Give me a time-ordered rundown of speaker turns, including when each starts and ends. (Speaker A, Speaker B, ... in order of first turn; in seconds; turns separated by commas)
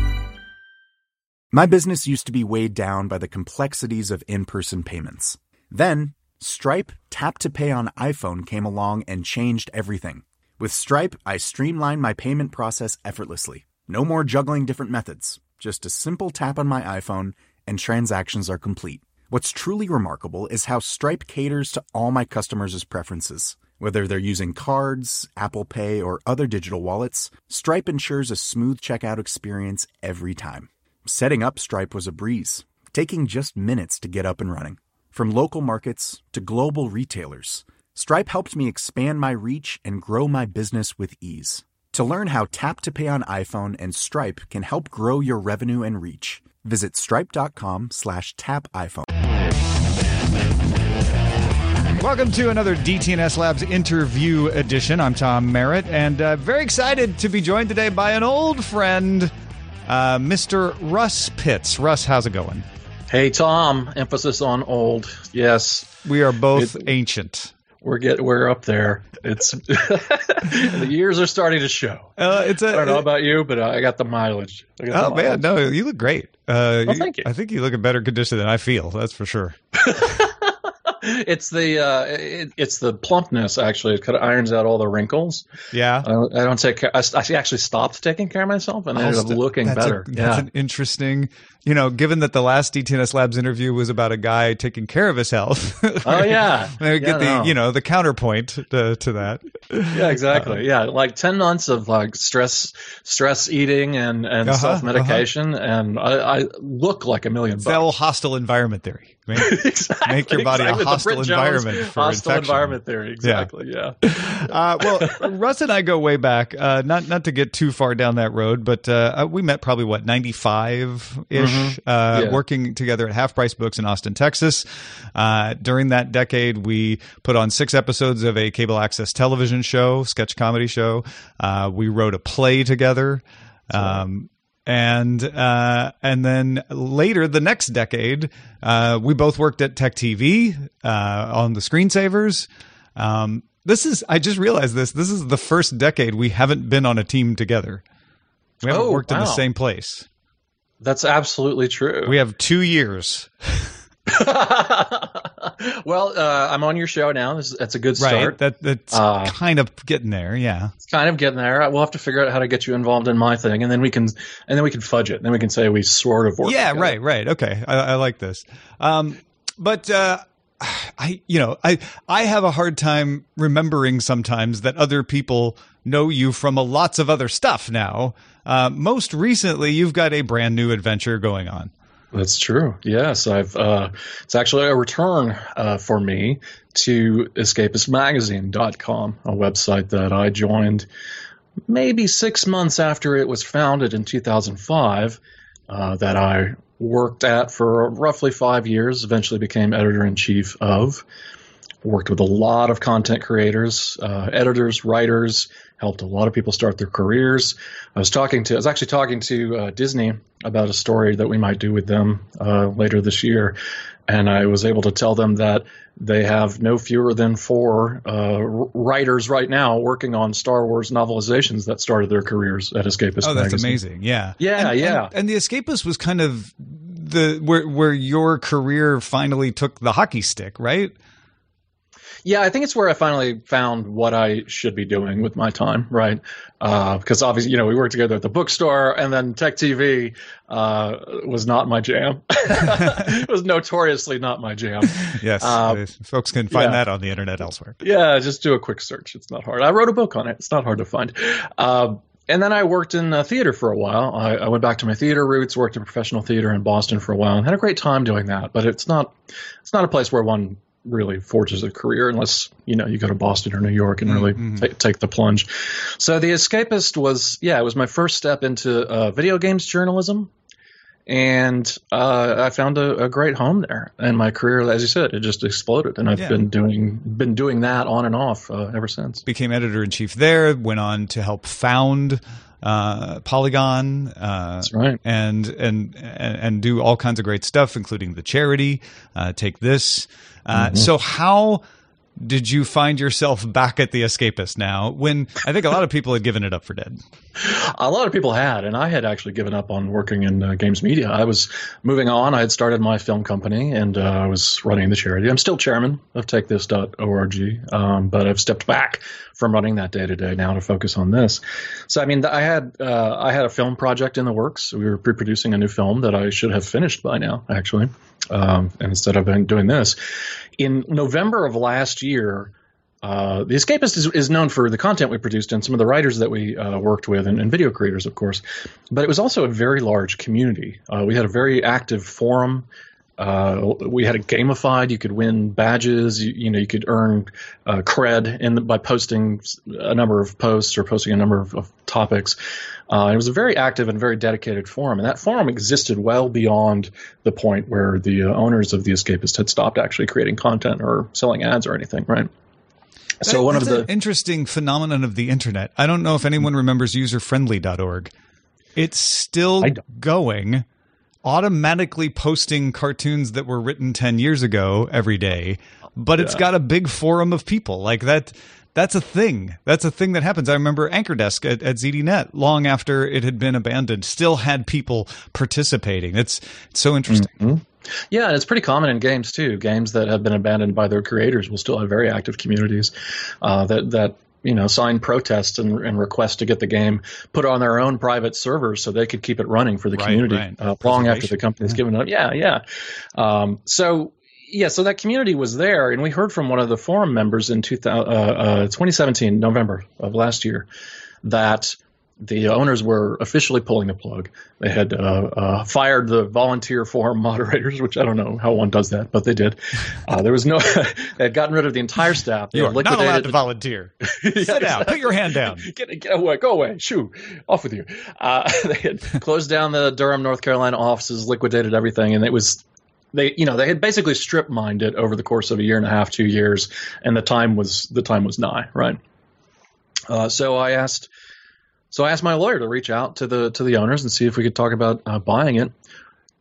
Speaker A: 1.5-49.1, Speaker B: 52.0-59.3, Speaker B: 59.9-62.7, Speaker C: 63.1-66.0, Speaker B: 66.0-67.5, Speaker C: 66.5-66.8, Speaker C: 67.8-75.5, Speaker B: 72.2-73.1, Speaker B: 74.9-79.6, Speaker C: 76.9-77.3, Speaker C: 79.8-85.5, Speaker B: 85.7-86.1, Speaker C: 86.0-90.5, Speaker B: 89.0-100.6, Speaker C: 96.0-97.5, Speaker C: 99.9-107.9, Speaker B: 104.5-105.3, Speaker B: 107.6-113.5, Speaker C: 109.4-115.2, Speaker B: 114.0-147.8, Speaker C: 121.3-122.4, Speaker C: 133.7-134.0, Speaker B: 148.6-150.1, Speaker C: 148.6-149.4, Speaker C: 150.8-152.2, Speaker B: 152.1-153.7, Speaker C: 154.1-158.4, Speaker B: 158.0-160.7, Speaker C: 158.9-159.3, Speaker C: 160.8-166.9, Speaker B: 166.4-181.7, Speaker C: 182.1-190.9, Speaker C: 191.7-201.0, Speaker C: 201.8-213.6, Speaker C: 214.1-223.8, Speaker B: 223.2-230.9, Speaker C: 224.4-225.1, Speaker C: 232.2-245.8, Speaker B: 245.2-247.8, Speaker C: 246.5-246.8, Speaker C: 247.8-270.3, Speaker B: 264.1-264.7, Speaker C: 271.1-279.2, Speaker B: 279.3-291.6, Speaker C: 284.6-285.0, Speaker C: 290.5-290.9, Speaker B: 292.2-297.0, Speaker C: 297.4-320.0, Speaker C: 320.6-322.5, Speaker C: 323.0-332.7, Speaker C: 333.2-342.4, Speaker C: 342.9-352.3, Speaker C: 353.2-353.9, Speaker B: 353.3-358.1, Speaker B: 358.8-360.6, Speaker B: 361.2-377.3, Speaker C: 377.1-392.6, Speaker B: 389.9-391.8, Speaker C: 393.2-400.7, Speaker C: 401.2-413.4, Speaker B: 412.5-415.6, Speaker C: 414.1-422.6, Speaker C: 423.1-429.0, Speaker C: 430.1-431.1, Speaker C: 431.9-435.7